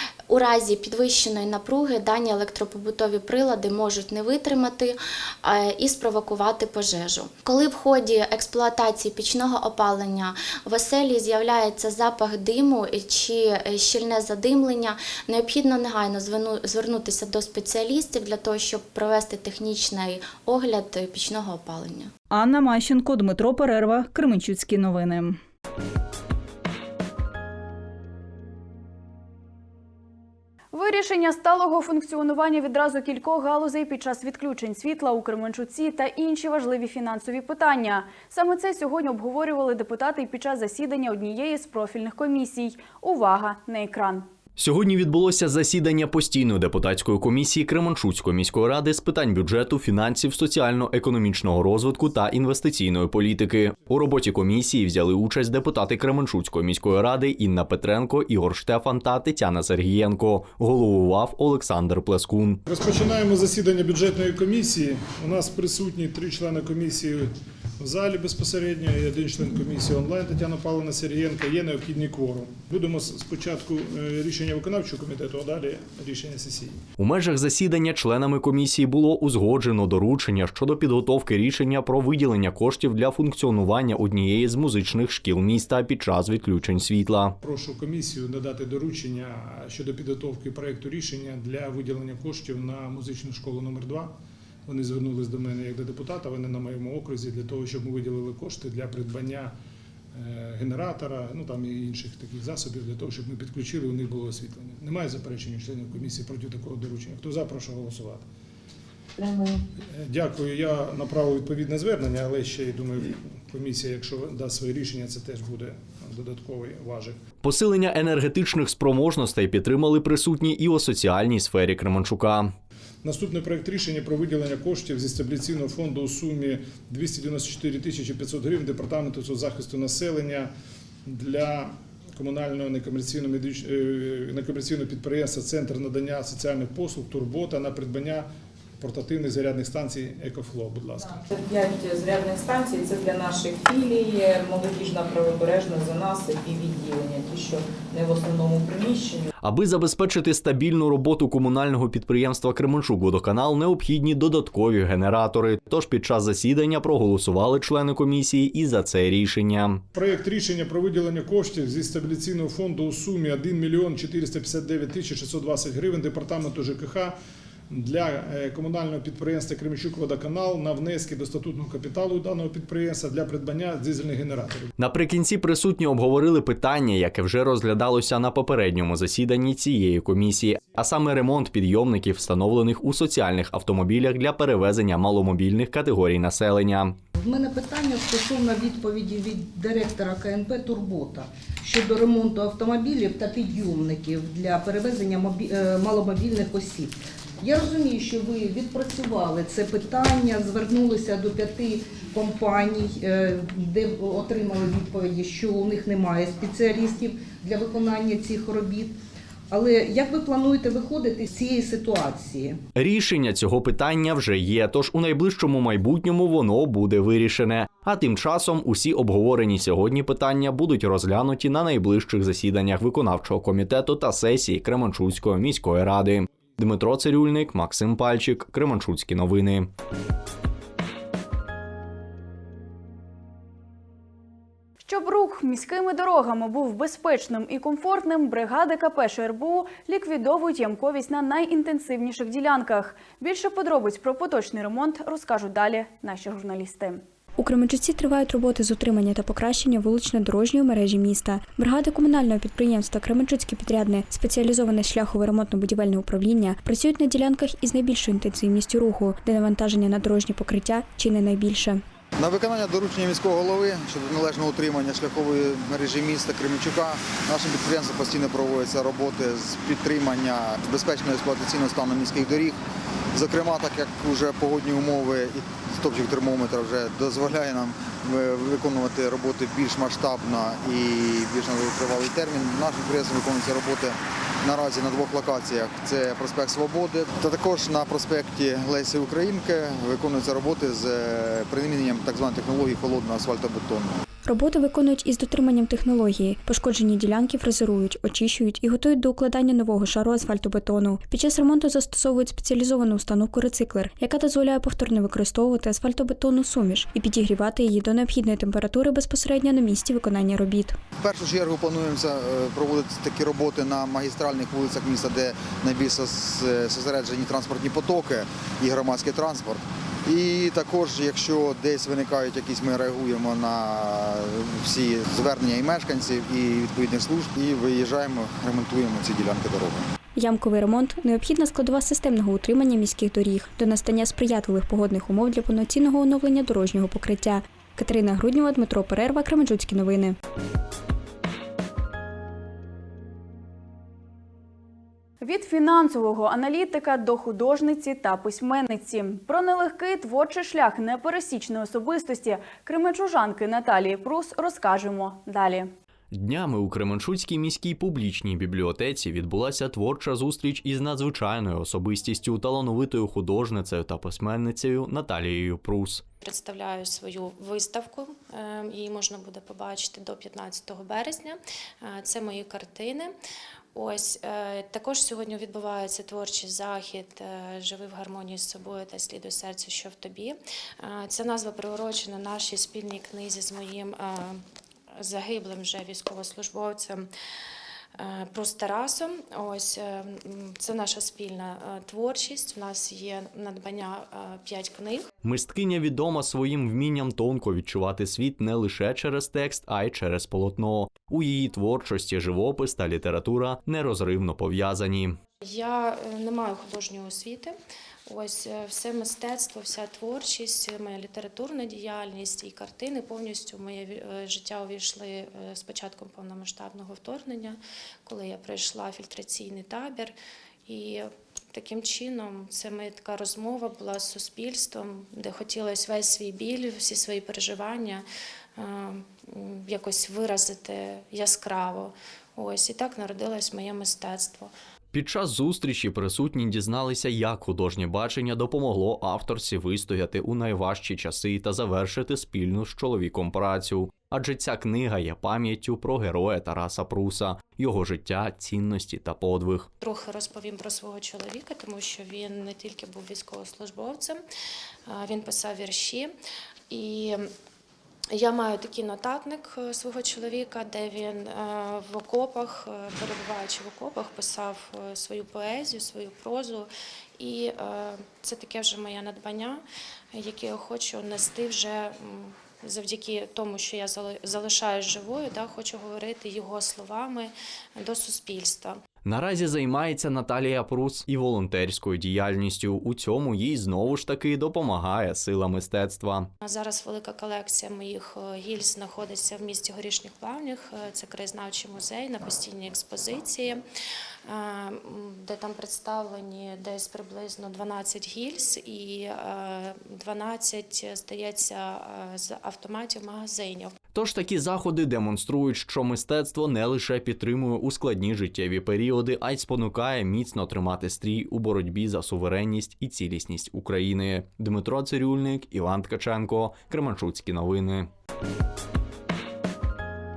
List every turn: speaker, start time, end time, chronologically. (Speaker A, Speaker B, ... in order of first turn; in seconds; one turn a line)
Speaker A: 0.3-22.1
Speaker B: 22.3-25.4
Speaker C: 30.7-44.3
Speaker D: 44.6-62.6
Speaker E: 62.7-76.8
Speaker D: 77.0-87.4
Speaker E: 87.4-94.1
Speaker E: 94.7-99.5
Speaker E: 100.1-108.2
Speaker F: 109.2-109.6
Speaker E: 109.9-117.2
Speaker D: 117.4-122.5
Speaker E: 123.0-130.5
Speaker E: 131.1-138.3
Speaker E: 138.8-141.2
Speaker F: 141.0-149.3
Speaker D: 149.4-159.8
Speaker E: 159.9-167.2
Speaker E: 167.7-174.7
Speaker D: 174.8-187.0
Speaker G: 187.2-209.0
Speaker G: 209.5-212.6
Speaker D: 212.8-229.7
Speaker C: 234.8-247.0
Speaker H: 247.4-261.8
Speaker I: 262.2-272.6
Speaker I: 273.1-294.0
Speaker H: 294.2-310.8
Speaker I: 311.0-329.9
Speaker H: 330.2-340.2
Speaker C: 345.2-355.7
Speaker D: 356.1-366.0
Speaker J: 366.2-373.1
Speaker J: 373.7-384.4
Speaker J: 384.9-387.1
Speaker J: 387.9-395.1
Speaker D: 395.2-405.2
Speaker J: 405.4-407.5
Speaker J: 408.1-420.1
Speaker J: 420.7-428.0
Speaker J: 428.6-434.5
Speaker D: 434.9-449.7
Speaker J: 449.8-454.2
Speaker J: 454.9-456.1
Speaker J: 456.7-457.3
Speaker J: 458.1-469.6
Speaker J: 470.1-478.8
Speaker D: 479.1-486.3
Speaker J: 486.4-493.6
Speaker J: 494.3-503.8
Speaker D: 503.9-517.9